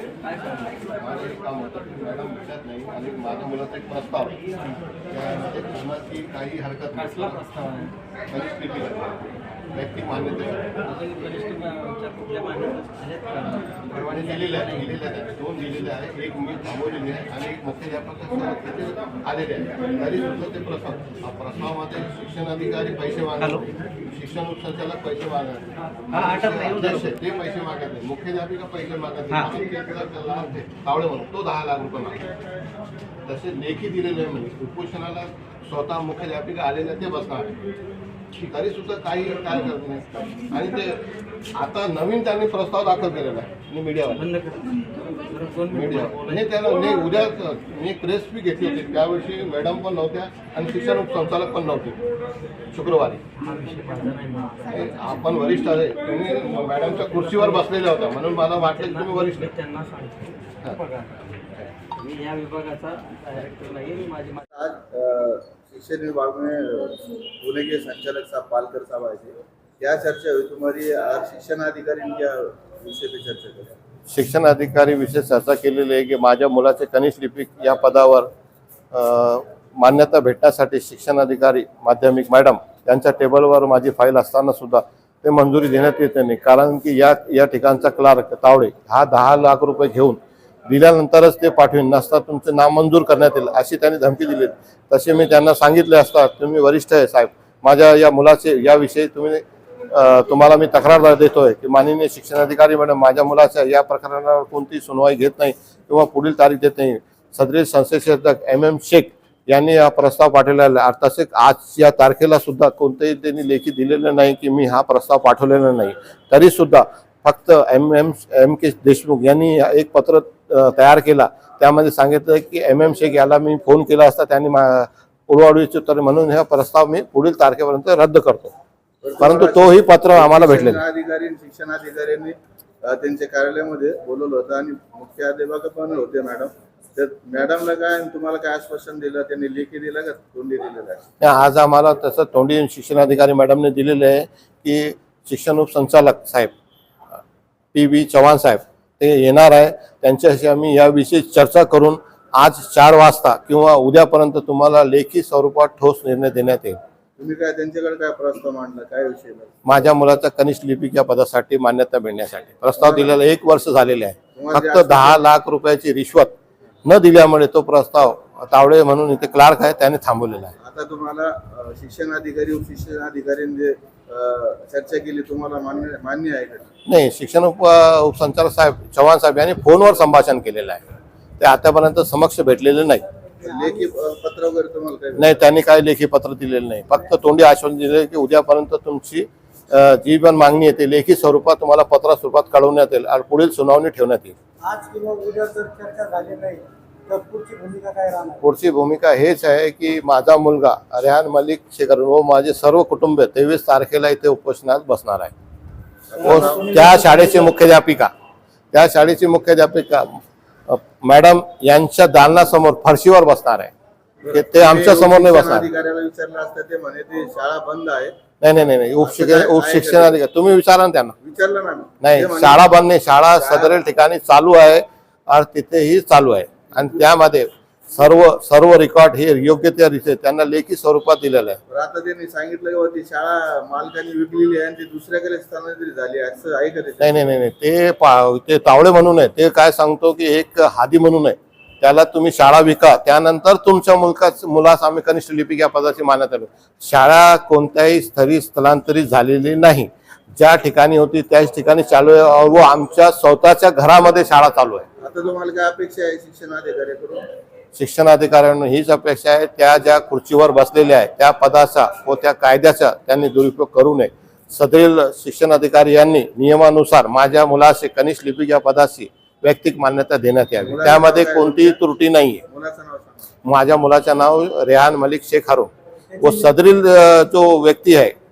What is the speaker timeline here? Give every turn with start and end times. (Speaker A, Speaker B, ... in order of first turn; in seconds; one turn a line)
Speaker A: 0.2-0.8
Speaker B: 1.0-4.4
Speaker B: 5.1-7.4
Speaker A: 7.0-7.9
Speaker B: 8.3-9.1
Speaker B: 9.7-10.7
Speaker A: 10.8-14.9
Speaker B: 14.0-32.2
Speaker A: 26.1-27.0
Speaker B: 33.2-37.5
Speaker B: 38.4-41.0
Speaker B: 41.5-44.3
Speaker A: 44.1-46.4
Speaker B: 45.7-52.0
Speaker B: 52.7-53.2
Speaker A: 53.4-55.1
Speaker B: 54.7-59.5
Speaker A: 58.6-61.1
Speaker A: 61.9-64.4
Speaker C: 64.5-73.8
Speaker B: 74.1-78.3
Speaker B: 78.9-128.5
Speaker C: 129.0-141.0
Speaker B: 129.2-130.8
Speaker B: 141.2-146.5
Speaker B: 147.7-156.8
Speaker C: 157.2-159.6
Speaker B: 159.6-166.3
Speaker C: 162.8-163.1
Speaker C: 164.3-165.2
Speaker B: 166.8-170.5
Speaker C: 170.6-176.7
Speaker B: 176.8-180.8
Speaker B: 181.4-183.0
Speaker D: 183.4-183.8
Speaker C: 183.4-185.5
Speaker B: 185.2-194.3
Speaker D: 194.7-198.4
Speaker B: 198.4-205.3
Speaker C: 206.1-206.7
Speaker D: 206.2-207.6
Speaker B: 206.2-208.1
Speaker B: 208.7-213.7
Speaker C: 214.2-218.1
Speaker B: 214.3-215.7
Speaker B: 218.4-221.1
Speaker C: 219.0-220.2
Speaker C: 221.2-223.8
Speaker B: 222.0-231.6
Speaker C: 226.8-227.1
Speaker C: 231.7-237.2
Speaker B: 237.0-254.8
Speaker C: 255.0-257.2
Speaker B: 257.7-272.4
Speaker C: 270.6-271.8
Speaker C: 272.4-273.2
Speaker B: 273.4-278.1
Speaker D: 276.1-276.5